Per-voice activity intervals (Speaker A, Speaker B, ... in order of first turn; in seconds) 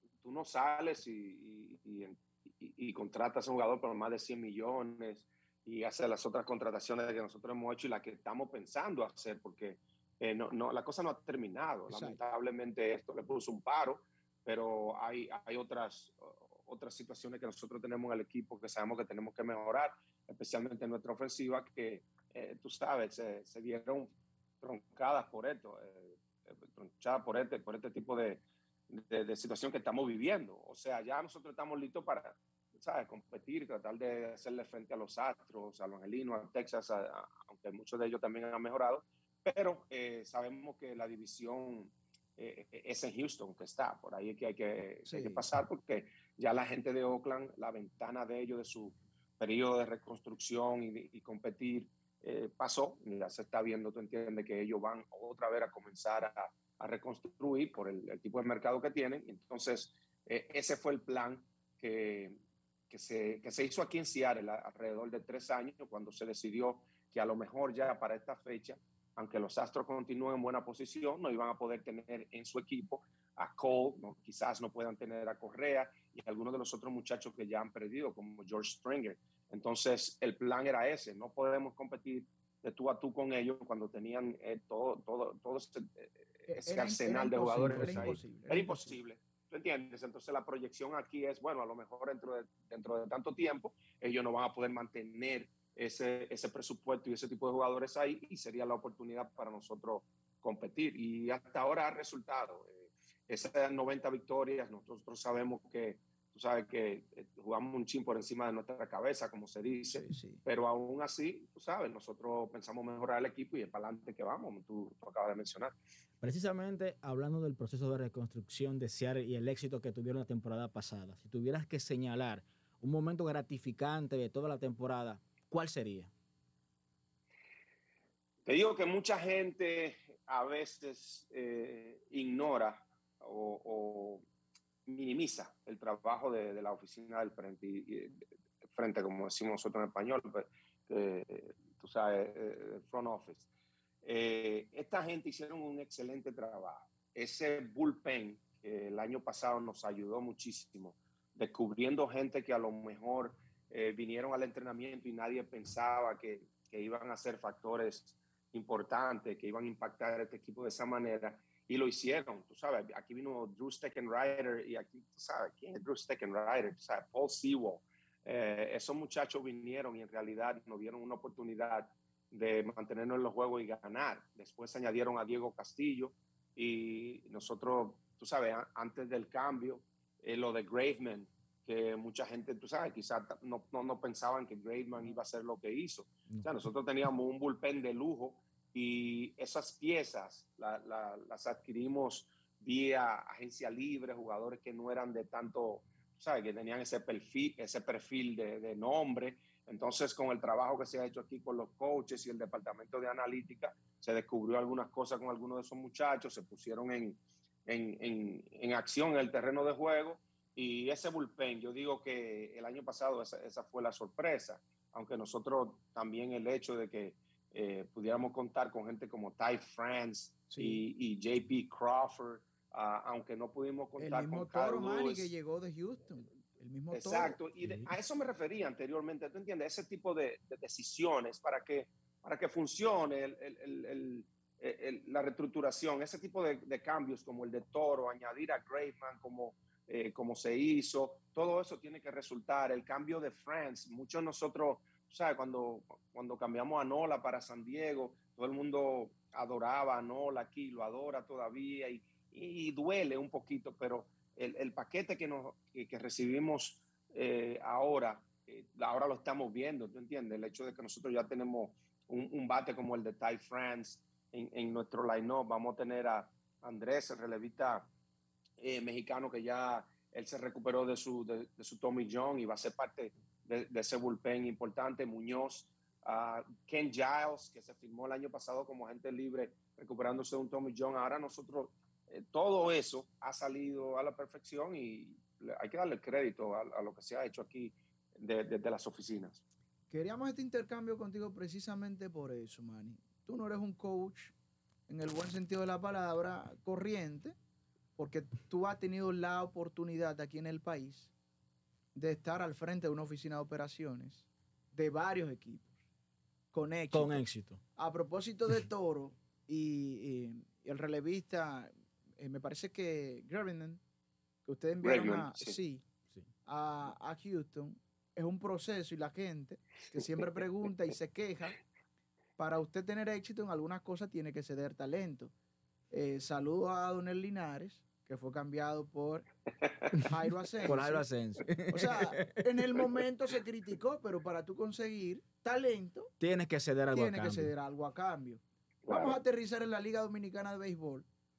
Speaker A: 0.2-62.4, 62.9-115.7, 128.4-134.2, 134.8-138.2, 138.7-143.5, 144.0-225.3, 226.9-267.9, 268.6-289.4, 314.8-315.6, 338.8-339.2
Speaker B: 11.9-12.2, 45.1-45.4, 86.5-88.9, 110.1-110.4, 220.5-220.8, 224.0-227.4, 289.9-294.3, 294.9-297.4, 298.0-301.1, 301.9-305.7, 306.5-307.2, 307.8-313.8, 314.4-315.8, 316.4-321.6, 322.4-325.3, 325.9-329.2, 330.0-331.0, 331.7-336.1, 336.9-341.1
Speaker C: 116.2-126.1, 306.9-307.6, 330.6-332.4, 336.2-337.5